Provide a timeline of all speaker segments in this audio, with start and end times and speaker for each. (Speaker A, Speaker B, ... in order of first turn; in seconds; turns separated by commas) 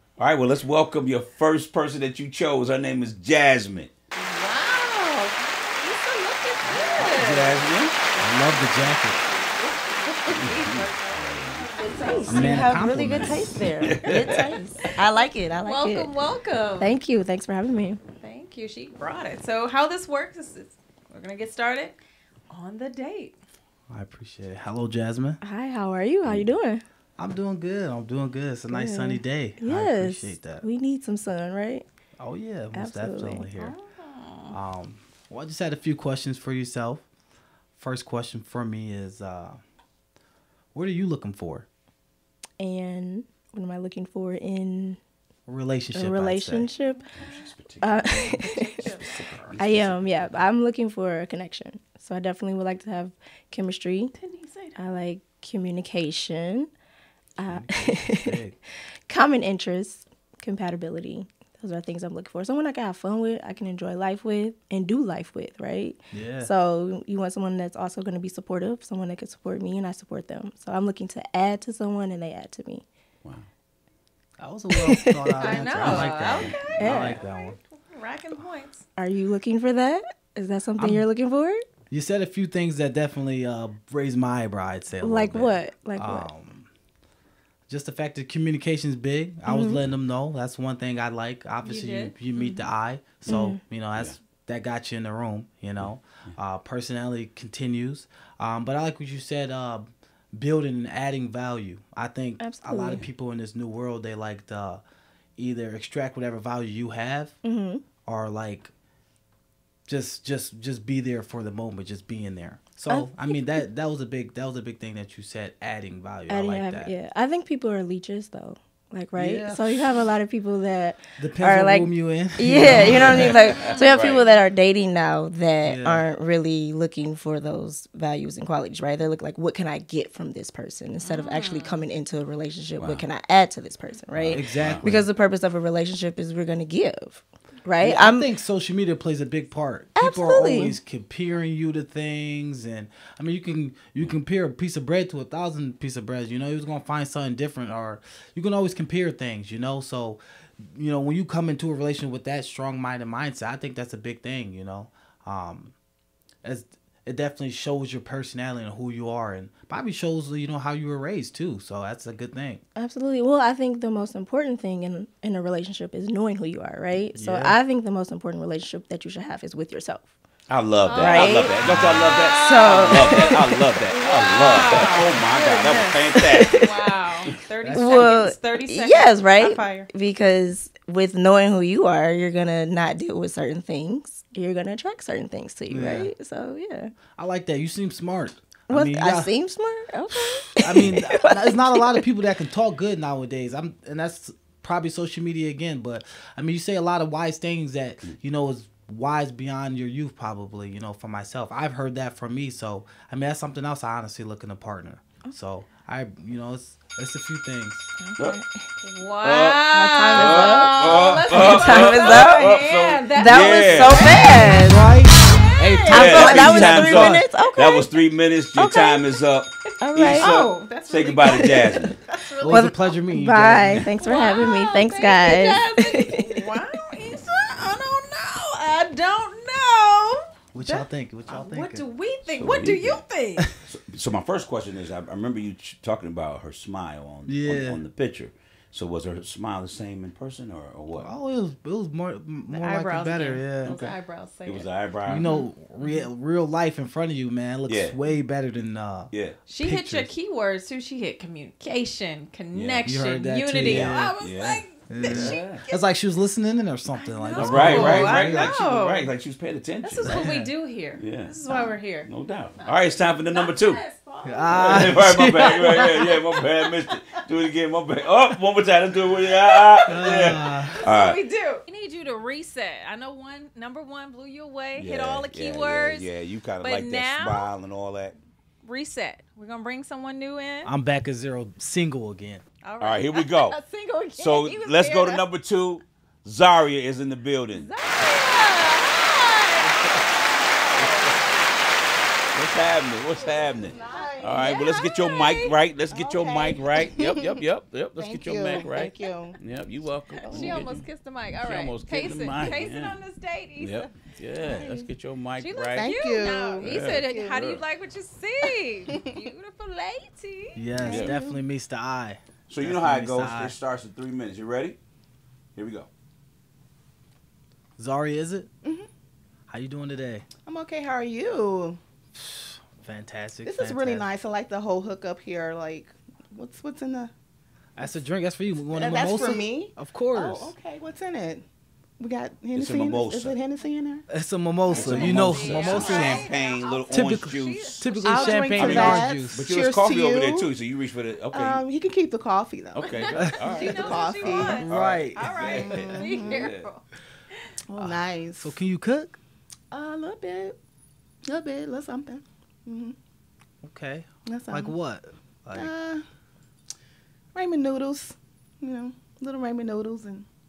Speaker A: 0.2-3.9, Speaker B: 4.1-12.9, Speaker A: 6.7-8.0, Speaker C: 8.2-9.2, Speaker A: 10.3-14.6, Speaker D: 11.8-16.1, Speaker C: 12.2-13.6, Speaker B: 14.0-14.5, Speaker B: 15.6-16.9, Speaker D: 16.8-18.0, Speaker B: 18.2-22.0, Speaker B: 22.5-23.4, Speaker C: 23.9-25.4, Speaker D: 25.4-26.8, Speaker C: 27.2-30.6, Speaker D: 28.7-31.9, Speaker C: 32.2-33.7, Speaker D: 32.7-33.5, Speaker B: 33.5-34.6, Speaker C: 34.5-37.0, Speaker C: 37.8-39.6, Speaker C: 40.7-41.7, Speaker D: 42.6-45.0, Speaker C: 45.5-46.7, Speaker D: 45.9-47.1, Speaker B: 47.0-47.5, Speaker A: 47.1-50.4, Speaker D: 47.8-48.7, Speaker B: 48.1-49.3, Speaker D: 49.5-54.1, Speaker B: 54.1-54.8, Speaker D: 54.8-56.7, Speaker D: 57.4-58.4, Speaker C: 57.5-58.6, Speaker D: 59.1-72.8, Speaker C: 66.1-66.5, Speaker C: 74.4-77.6, Speaker D: 74.7-75.6, Speaker B: 75.4-78.8, Speaker A: 75.6-76.8, Speaker D: 76.7-77.2, Speaker D: 79.0-81.6, Speaker C: 80.8-81.0, Speaker C: 81.9-86.7, Speaker D: 85.0-86.3, Speaker C: 87.7-104.8, Speaker D: 89.5-89.8, Speaker B: 91.6-92.2, Speaker D: 93.2-93.6, Speaker D: 102.4-103.0, Speaker C: 105.4-107.4, Speaker D: 107.4-107.8, Speaker C: 108.0-108.7, Speaker C: 109.9-116.9, Speaker D: 112.9-113.6, Speaker D: 116.3-138.3, Speaker C: 119.2-120.0, Speaker C: 121.2-123.5, Speaker A: 122.8-124.2, Speaker B: 123.5-123.9, Speaker C: 125.6-126.0, Speaker B: 131.0-131.8, Speaker A: 132.8-133.1, Speaker A: 134.1-134.8, Speaker C: 134.3-135.1, Speaker C: 137.8-155.7, Speaker D: 140.0-140.8, Speaker C: 156.4-162.6, Speaker D: 162.8-170.1, Speaker C: 167.1-167.6, Speaker A: 170.5-177.4, Speaker B: 170.8-179.9, Speaker D: 171.0-176.9, Speaker C: 177.6-178.2, Speaker D: 177.7-186.9, Speaker C: 185.7-186.1, Speaker C: 187.2-189.3, Speaker D: 188.7-192.0, Speaker C: 190.2-207.9, Speaker D: 208.0-208.7, Speaker B: 208.8-214.7, Speaker A: 209.2-214.2, Speaker D: 209.7-215.0, Speaker C: 214.5-217.3, Speaker B: 215.2-216.3, Speaker D: 215.8-217.9, Speaker A: 215.9-222.0, Speaker D: 219.8-220.3, Speaker E: 220.0-222.4, Speaker B: 220.0-220.7, Speaker D: 221.2-221.9, Speaker B: 222.1-223.0, Speaker C: 222.4-223.8, Speaker D: 222.5-226.6, Speaker B: 224.0-233.6, Speaker C: 230.5-231.8, Speaker A: 232.3-233.0, Speaker A: 233.7-241.1, Speaker C: 237.3-237.8, Speaker C: 241.0-243.7, Speaker B: 242.5-246.1, Speaker A: 243.6-245.4, Speaker C: 245.1-250.1, Speaker A: 247.7-247.9, Speaker A: 249.1-249.4, Speaker B: 249.5-255.9, Speaker A: 252.5-252.9, Speaker C: 252.8-254.1, Speaker A: 253.6-255.6, Speaker C: 254.9-258.5, Speaker B: 256.9-259.1, Speaker A: 257.4-260.3, Speaker B: 259.8-262.1, Speaker C: 260.1-260.5, Speaker A: 261.0-261.4, Speaker A: 261.9-263.8, Speaker B: 263.3-267.2, Speaker C: 264.2-266.0, Speaker A: 264.5-271.2, Speaker B: 269.1-276.1, Speaker C: 269.9-270.8, Speaker A: 274.8-278.2, Speaker B: 276.6-277.5, Speaker B: 278.6-280.7, Speaker C: 280.6-282.4, Speaker B: 282.6-285.2, Speaker A: 282.8-283.6, Speaker A: 284.1-287.7, Speaker B: 287.5-291.4, Speaker A: 289.6-290.0, Speaker A: 290.8-291.1, Speaker A: 292.3-303.0, Speaker E: 293.2-294.7, Speaker B: 293.6-295.6, Speaker E: 295.9-297.4, Speaker E: 298.0-299.4, Speaker E: 300.2-300.6, Speaker B: 300.2-304.0, Speaker A: 303.6-306.0, Speaker E: 304.4-304.9, Speaker B: 305.4-311.0, Speaker E: 305.8-307.5, Speaker A: 306.6-307.6, Speaker E: 308.9-309.2, Speaker C: 310.5-313.6, Speaker E: 310.8-311.4, Speaker A: 310.9-311.1, Speaker A: 312.5-314.8, Speaker A: 315.6-315.9, Speaker C: 317.8-318.5, Speaker C: 319.5-320.2, Speaker E: 320.4-321.8, Speaker C: 322.1-324.1, Speaker E: 323.4-327.1, Speaker C: 327.8-330.5, Speaker E: 328.7-331.4, Speaker E: 332.0-334.1, Speaker A: 332.5-333.4, Speaker C: 334.1-336.2, Speaker E: 334.7-336.3, Speaker B: 334.7-339.1, Speaker A: 334.7-338.0, Speaker C: 336.9-339.5, Speaker E: 338.0-340.5, Speaker A: 338.5-341.6, Speaker E: 341.3-344.7, Speaker A: 342.7-346.7, Speaker B: 342.8-346.8, Speaker C: 344.6-345.3, Speaker E: 345.3-346.5, Speaker E: 347.7-348.6, Speaker C: 347.8-349.2, Speaker E: 349.7-350.6, Speaker E: 351.3-352.9, Speaker C: 353.6-355.7, Speaker E: 354.3-354.7, Speaker E: 355.5-356.0, Speaker E: 357.3-360.2